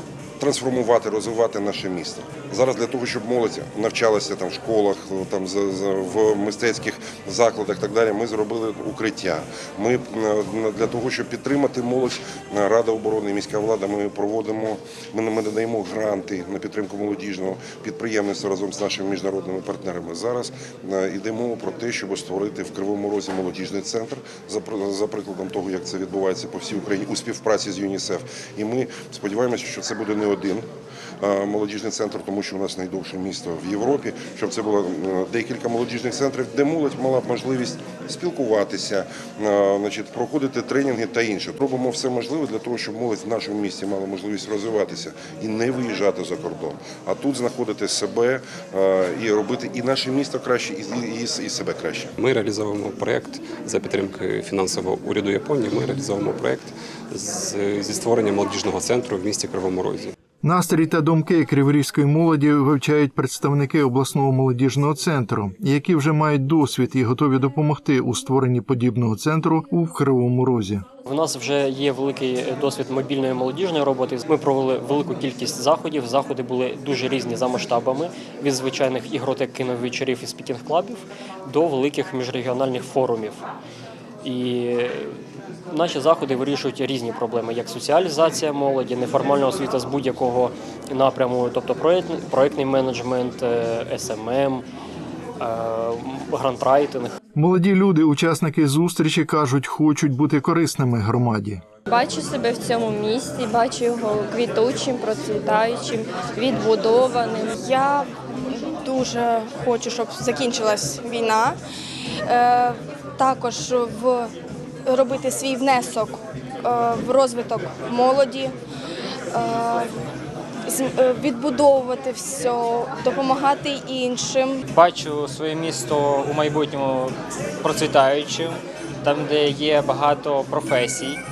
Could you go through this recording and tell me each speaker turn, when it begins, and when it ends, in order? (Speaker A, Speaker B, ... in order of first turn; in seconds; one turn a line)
Speaker A: 0.4-30.7
Speaker A: 31.2-52.1
Speaker B: 52.2-60.1
Speaker C: 60.4-70.8
Speaker D: 71.0-83.4
Speaker D: 84.2-85.2
Speaker D: 85.7-94.6
Speaker D: 95.4-97.2
Speaker C: 97.3-101.6
Speaker E: 101.9-107.5
Speaker F: 107.6-111.5
Speaker F: 112.3-114.3
Speaker F: 114.9-118.5
Speaker F: 119.3-119.9
Speaker F: 120.7-124.6
Speaker G: 124.7-131.2